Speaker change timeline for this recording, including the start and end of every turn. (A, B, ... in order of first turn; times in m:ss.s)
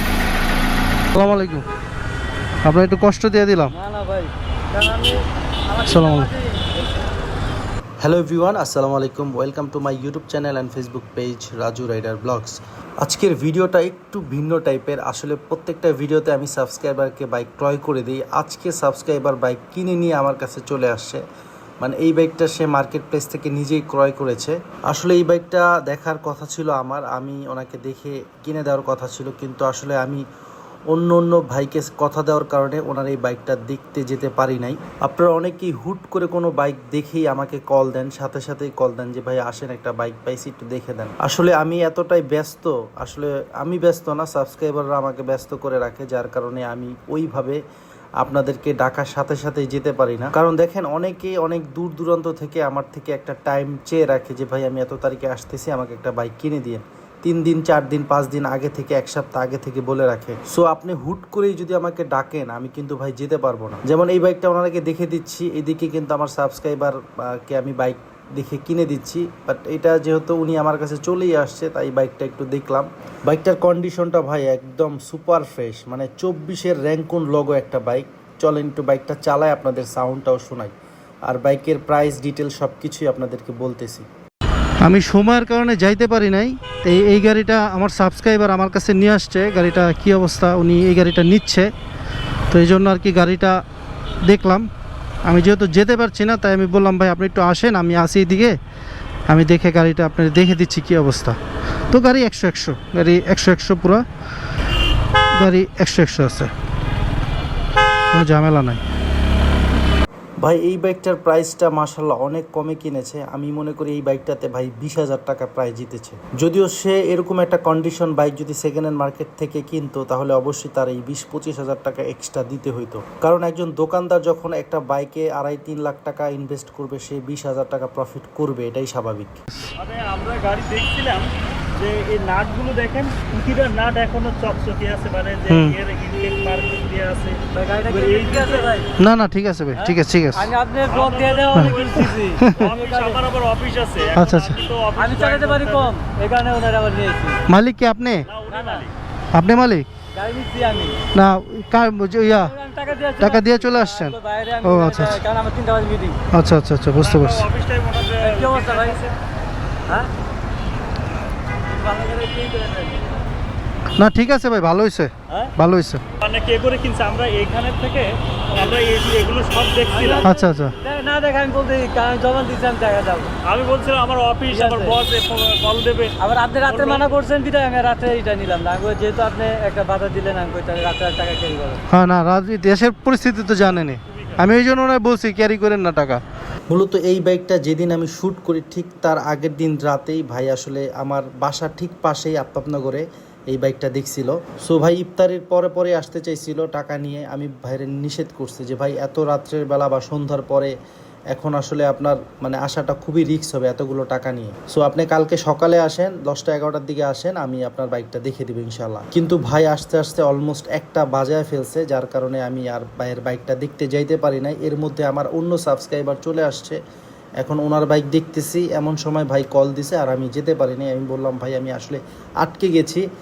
0:01.1-0:01.6 A
0:02.6-0:03.7 A
0:03.7-0:06.8 B
0:05.8-0:06.3 A
0:08.0-0:21.2 C
0:21.8-0:30.2 C
0:30.9-0:47.6 C
0:48.2-1:20.7 C
1:21.3-1:24.0 C
1:24.8-1:31.7 A
1:32.5-1:33.6 A
1:34.2-1:34.7 A
1:35.2-1:38.6 A
1:39.3-1:41.4 A
1:41.9-1:44.0 A
1:45.4-1:46.5 A
1:48.1-1:48.8 A
1:50.4-2:09.4 C
2:09.8-2:18.7 D
2:15.5-2:15.7 A
2:17.5-2:18.9 B
2:19.0-2:20.5 A
2:19.7-2:23.2 B
2:20.9-2:25.9 D
2:24.2-2:24.6 A
2:25.0-2:27.4 B
2:27.5-2:28.3 A
2:28.2-2:28.9 D
2:28.5-2:28.8 B
2:29.3-2:29.8 A
2:30.2-2:31.0 B
2:31.1-2:32.5 A
2:32.3-2:36.2 B
2:33.2-2:35.2 A
2:36.3-2:37.4 A
2:37.0-2:39.1 D
2:38.2-2:39.0 B
2:41.7-2:43.1 B
2:44.0-2:46.0 A
2:46.2-2:50.3 D
2:49.9-2:53.3 B
2:50.2-2:50.7 A
2:53.4-2:56.1 D
2:54.5-2:55.0 B
2:56.2-3:01.8 B
2:56.6-2:57.0 D
3:01.9-3:06.2 A
3:03.9-3:04.4 D
3:06.7-3:20.7 C
3:21.3-3:36.8 C
3:37.4-3:43.0 C